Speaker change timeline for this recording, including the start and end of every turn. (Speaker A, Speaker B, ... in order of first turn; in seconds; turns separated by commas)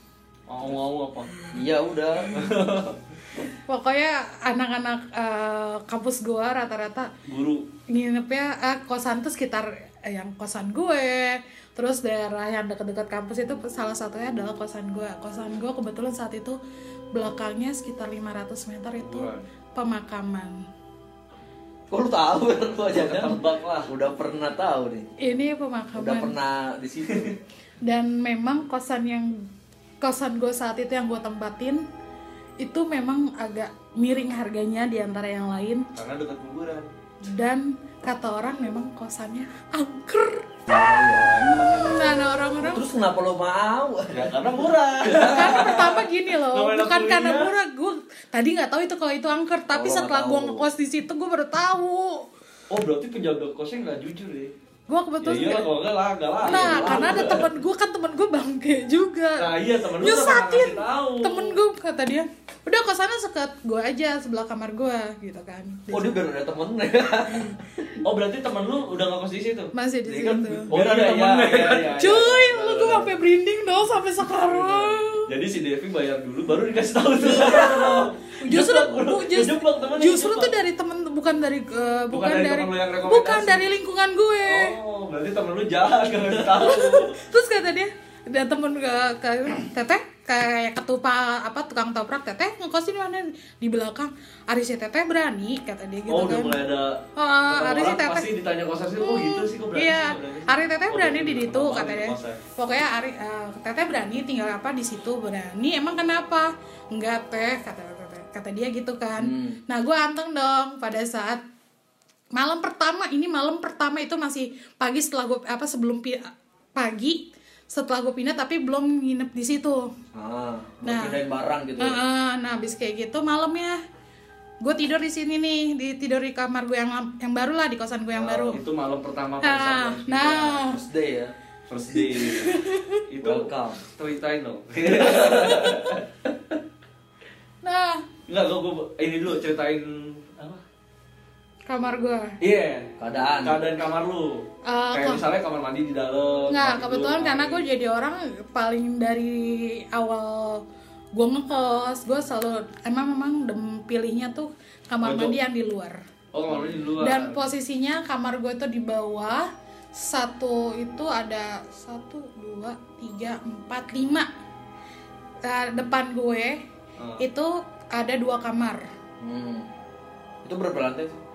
Speaker A: 0.5-1.4, Speaker B: 1.5-2.5, Speaker A: 2.3-3.0, Speaker C: 3.7-7.1, Speaker A: 7.3-7.6, Speaker C: 7.9-16.6, Speaker C: 17.1-20.6, Speaker A: 19.0-19.5, Speaker B: 21.9-25.1, Speaker A: 22.9-23.9, Speaker C: 25.2-26.3, Speaker B: 25.9-27.3, Speaker C: 27.8-29.3, Speaker C: 30.0-31.8, Speaker C: 32.6-35.9, Speaker A: 35.9-36.9, Speaker C: 37.2-40.5, Speaker B: 40.7-44.4, Speaker A: 41.3-42.2, Speaker C: 41.8-42.8, Speaker A: 44.1-47.5, Speaker B: 45.0-45.8, Speaker C: 45.3-52.2, Speaker B: 49.7-50.6, Speaker A: 52.7-54.5, Speaker C: 54.9-55.7, Speaker A: 55.2-57.5, Speaker B: 56.4-57.5, Speaker C: 56.5-59.5, Speaker A: 59.4-61.5, Speaker C: 60.0-66.2, Speaker B: 65.9-68.0, Speaker A: 68.0-69.7, Speaker C: 69.7-70.7, Speaker B: 70.0-72.0, Speaker A: 70.7-73.1, Speaker C: 71.8-75.3, Speaker A: 75.3-80.5, Speaker C: 77.3-84.8, Speaker A: 82.1-83.7, Speaker A: 84.5-87.2, Speaker C: 86.5-96.6, Speaker A: 96.1-102.4, Speaker C: 97.2-98.3, Speaker C: 99.0-111.4, Speaker B: 109.2-109.6, Speaker C: 112.3-117.2, Speaker C: 117.7-119.9, Speaker B: 120.1-122.0, Speaker C: 120.8-121.2, Speaker C: 121.8-123.8, Speaker C: 124.6-128.6, Speaker B: 128.1-128.6, Speaker A: 128.5-130.6, Speaker C: 129.4-130.8, Speaker B: 130.7-131.3, Speaker A: 131.7-136.1, Speaker C: 132.0-133.0, Speaker B: 133.2-133.8, Speaker B: 135.0-135.6, Speaker C: 135.2-135.9, Speaker C: 137.6-138.0, Speaker A: 138.3-140.6, Speaker C: 141.7-142.3, Speaker A: 142.4-142.9, Speaker B: 143.0-143.7, Speaker A: 143.4-147.2, Speaker C: 144.7-145.2, Speaker C: 146.5-150.6, Speaker B: 146.8-147.6, Speaker C: 151.1-156.0, Speaker A: 155.0-155.3, Speaker A: 156.3-157.4, Speaker C: 157.0-164.3, Speaker C: 165.4-166.6, Speaker A: 167.0-167.2, Speaker C: 167.2-168.8, Speaker B: 169.2-169.7, Speaker B: 170.4-171.2